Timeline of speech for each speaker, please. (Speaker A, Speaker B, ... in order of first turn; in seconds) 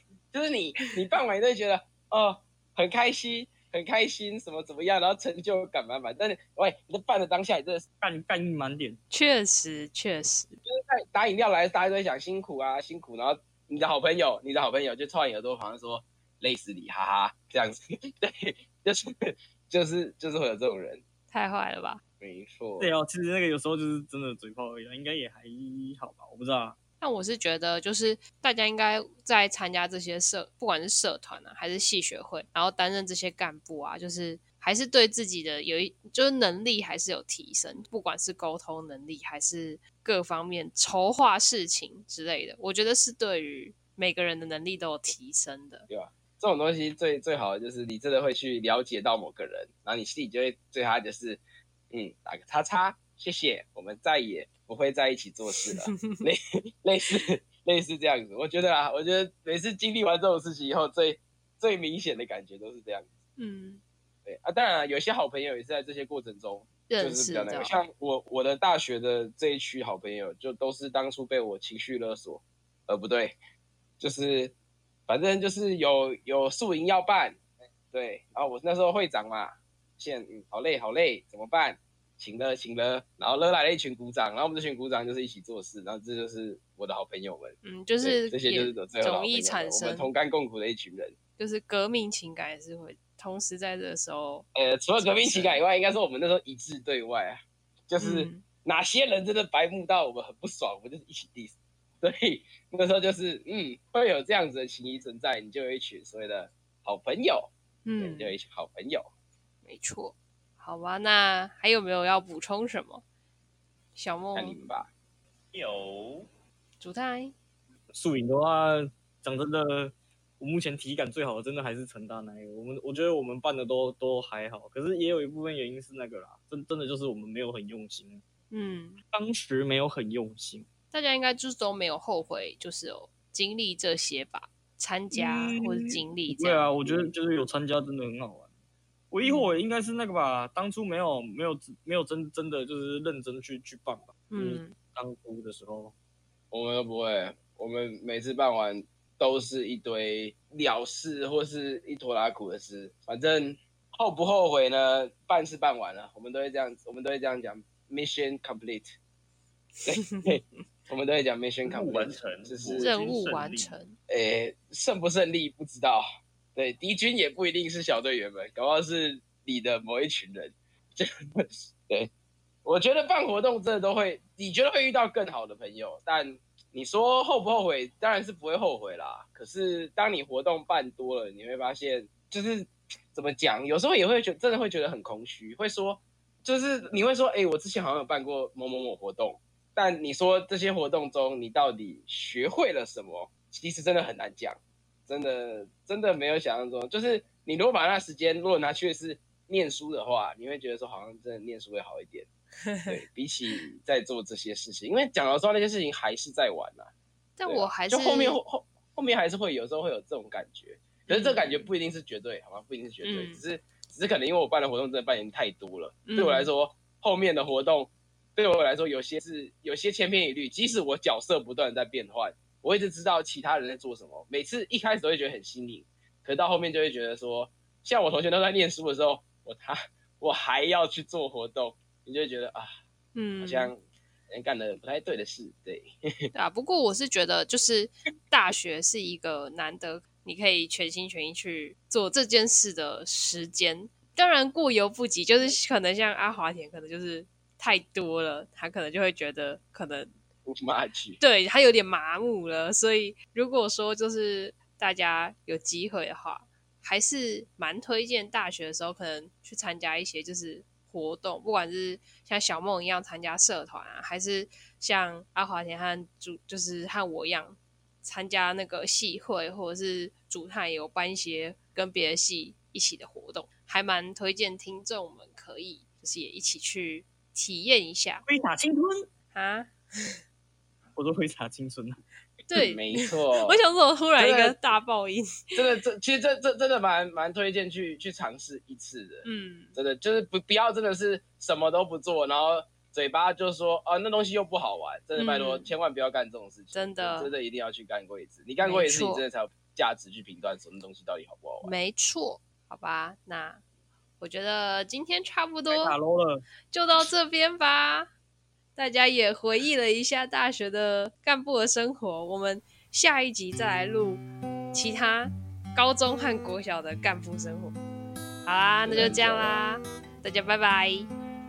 Speaker A: 0.3-7.8, 10.6-21.0, 22.2-22.9, 45.9-63.1, 64.2-73.3, 74.0-74.5, 75.1-77.4, 77.9-91.1, 94.5-109.1, 114.3-114.9, 146.5-158.9, 159.8-162.9, 164.1-166.0, 166.5-172.1, 172.6-202.3, 202.9-206.9, 207.4-232.7, 233.4-235.9, 250.4-251.2, 282.5-283.6, 284.2-284.6, 285.6-301.7, 318.8-319.6
Speaker B: 8.0-9.0, 22.8-26.8, 117.9-128.2, 129.1-130.7, 135.1-138.4, 139.1-145.9, 278.3-279.1, 280.9-282.0, 305.7-306.4
Speaker C: 9.1-10.6, 21.3-22.0, 27.0-45.9, 63.4-63.8, 66.9-67.7, 87.6-90.1, 91.4-94.5, 95.0-95.6, 98.0-98.4, 107.8-108.3, 109.6-113.0, 114.0-114.5, 116.8-117.3, 128.5-129.0, 130.9-136.7, 139.2-139.5, 144.3-144.7, 160.0-160.4, 162.8-163.9, 202.6-202.9, 207.4-208.4, 211.1-211.7, 213.0-213.4, 216.1-216.5, 233.1-233.7, 236.3-250.1, 251.2-278.2, 279.3-280.2, 282.5-285.5, 289.2-289.7, 295.1-295.7, 296.7-297.3, 298.6-299.2, 301.6-303.6, 304.2-305.9, 306.7-308.1, 308.8-317.8, 318.4-321.1
Speaker D: 115.5-116.2, 161.6-163.8